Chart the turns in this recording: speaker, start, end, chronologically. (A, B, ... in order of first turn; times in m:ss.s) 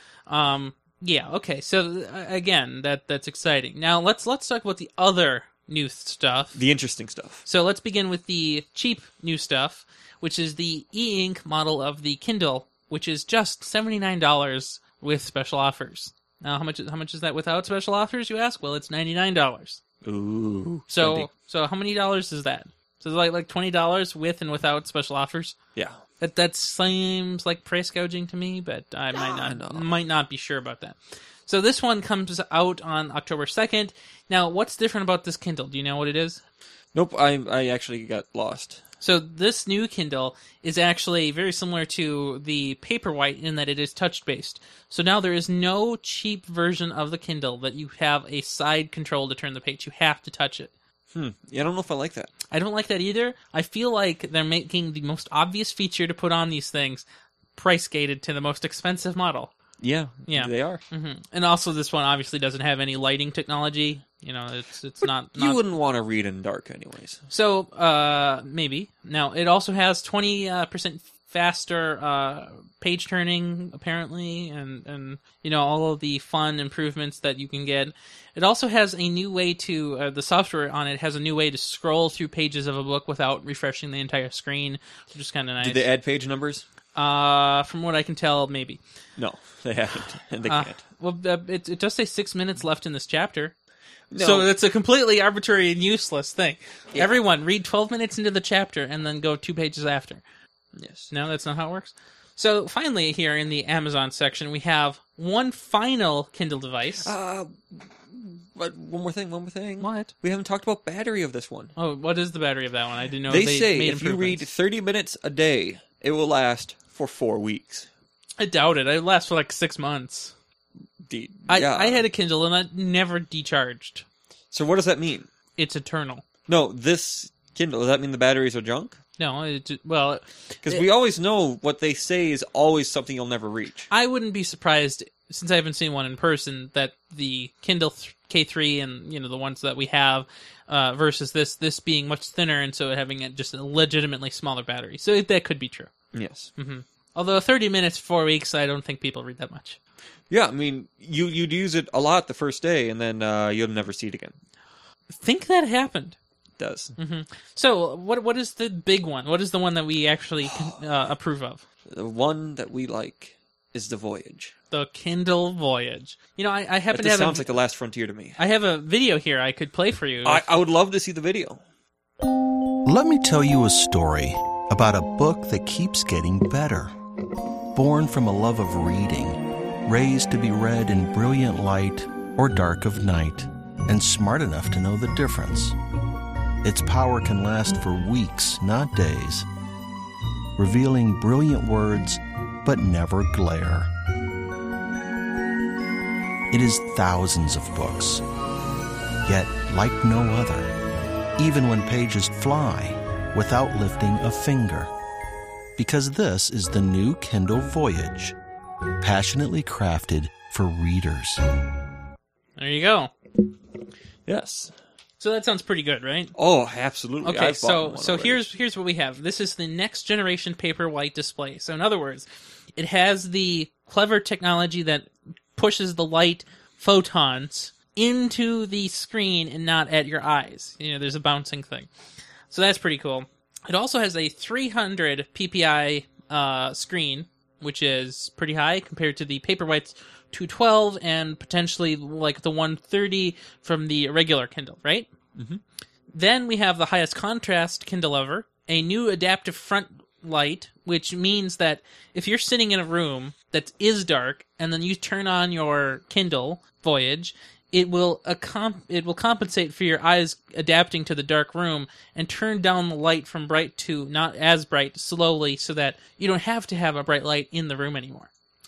0:00.3-0:06.6 A
0:06.6-0:07.4 B
0:07.5-0:19.8 A
0:20.0-0:21.3 B
0:20.9-0:25.6 A
0:25.8-0:26.0 B
0:26.2-0:36.4 A
0:29.1-0:29.9 B
0:36.9-0:38.8 B
0:39.0-0:50.7 A
0:51.1-0:52.3 B
0:52.5-0:57.0 A
0:57.6-0:59.5 A
0:59.8-1:00.8 B
1:00.3-1:05.6 A
1:05.0-1:07.2 B
1:07.3-1:25.9 A
1:25.6-1:26.6 B
1:27.0-1:28.8 A
1:29.2-1:30.8 B
1:30.5-1:33.5 A
1:34.1-1:34.5 B
1:34.2-1:40.2 A
1:40.8-1:41.1 B
1:41.1-1:47.1 A
1:47.0-1:51.7 B
1:49.8-1:50.1 A
1:51.8-1:54.5 A
1:53.3-1:57.9 B
1:58.4-2:00.3 A
2:01.1-2:02.0 B
2:01.5-2:04.0 A
2:04.5-2:05.3 B
2:05.6-2:06.2 A
2:06.5-2:09.0 B
2:09.2-2:10.8 A
2:10.6-2:13.9 B
2:13.9-2:25.9 A
2:26.1-2:26.5 B
2:26.6-2:29.8 A
2:30.3-2:34.4 B
2:35.2-2:36.2 A
2:36.6-2:36.9 B
2:37.0-2:41.6 A
2:40.5-2:40.8 B
2:41.9-2:44.5 B
2:44.7-2:47.5 A
2:46.9-2:48.4 B
2:48.4-2:50.4 A
2:50.2-2:51.6 B
2:52.8-2:56.9 C
2:57.8-3:05.8 C
3:06.6-3:09.5 C
3:10.6-3:13.9 C
3:16.5-3:18.2 C
3:19.2-3:20.7 C
3:21.4-3:24.9 C
3:25.8-3:28.4 C
3:29.0-3:31.4 C
3:32.6-3:33.1 A
3:34.3-3:34.7 B
3:35.2-3:36.4 A
3:36.4-3:38.4 B
3:37.2-3:51.9 A
3:52.5-4:05.1 A
4:05.4-4:05.6 B
4:06.1-4:28.3 A